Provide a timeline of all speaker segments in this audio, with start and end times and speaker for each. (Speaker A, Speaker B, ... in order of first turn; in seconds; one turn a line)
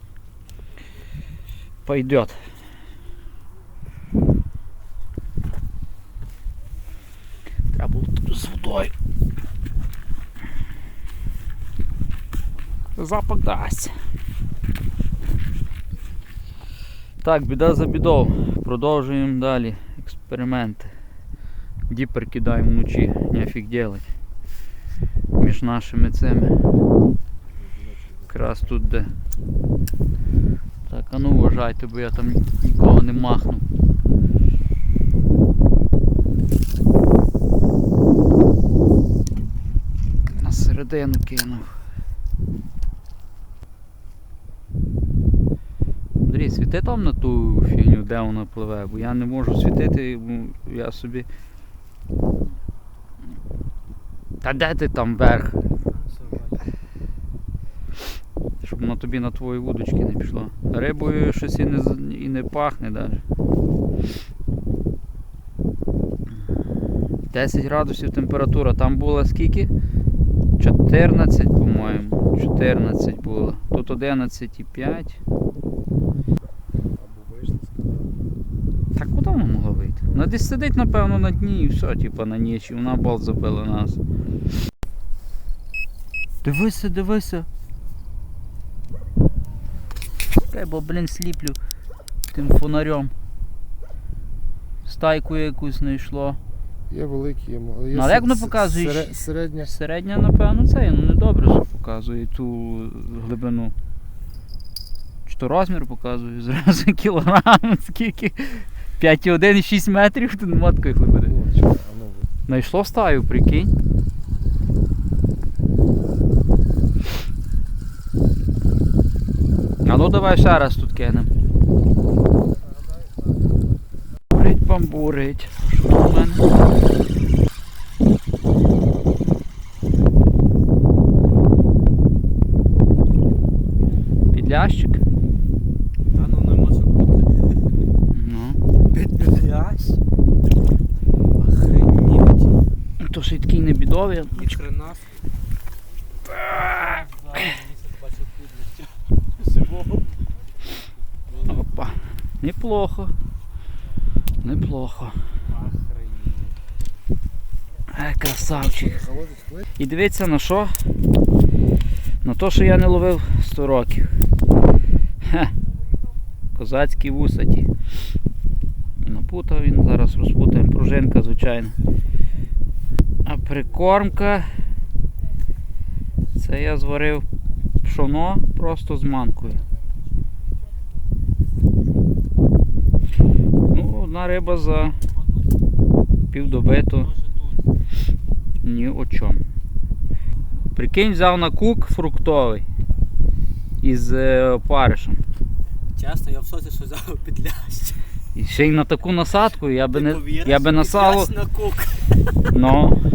Speaker A: 1.9-2.4
Speaker A: 7.7-8.9
Speaker A: 12.9-13.9
Speaker A: 17.2-20.9
Speaker A: 21.9-24.1
Speaker A: 25.4-26.6
Speaker B: 27.5-28.8
Speaker A: 28.3-29.1
Speaker A: 30.9-33.6
Speaker A: 40.3-41.7
Speaker A: 46.2-51.3
Speaker A: 54.4-55.6
Speaker C: 55.8-56.6
Speaker A: 58.6-63.2
Speaker A: 67.3-69.7
Speaker A: 70.6-75.2
Speaker B: 76.9-78.1
Speaker A: 79.0-84.0
Speaker B: 80.0-80.6
Speaker A: 86.4-87.5
Speaker A: 90.5-91.6
Speaker A: 92.3-93.1
Speaker A: 94.8-96.4
Speaker B: 96.9-99.7
Speaker A: 97.9-103.7
Speaker A: 105.2-111.4
Speaker B: 111.2-112.3
Speaker A: 112.5-113.7
Speaker A: 119.8-121.3
Speaker A: 124.3-126.5
Speaker A: 134.3-135.0
Speaker C: 136.1-137.8
Speaker A: 138.1-138.6
Speaker C: 138.9-140.0
Speaker C: 141.4-142.6
Speaker A: 143.0-144.6
Speaker C: 144.3-145.2
Speaker A: 146.3-147.0
Speaker C: 146.5-150.2
Speaker C: 151.3-151.7
Speaker A: 151.5-153.1
Speaker A: 154.4-155.2
Speaker C: 155.5-156.6
Speaker A: 157.9-159.0
Speaker B: 158.4-159.7
Speaker A: 159.8-160.8
Speaker A: 162.2-164.1
Speaker A: 165.2-165.5
Speaker A: 166.5-167.7
Speaker A: 169.0-171.7
Speaker A: 173.2-174.5
Speaker A: 176.4-177.3
Speaker A: 177.8-179.6
Speaker A: 183.7-185.0
Speaker A: 186.3-187.1
Speaker C: 187.1-187.6
Speaker A: 188.6-189.4
Speaker A: 190.7-192.7
Speaker A: 193.8-195.2
Speaker C: 195.9-198.0
Speaker A: 198.3-201.3
Speaker C: 199.9-202.5
Speaker A: 202.5-203.0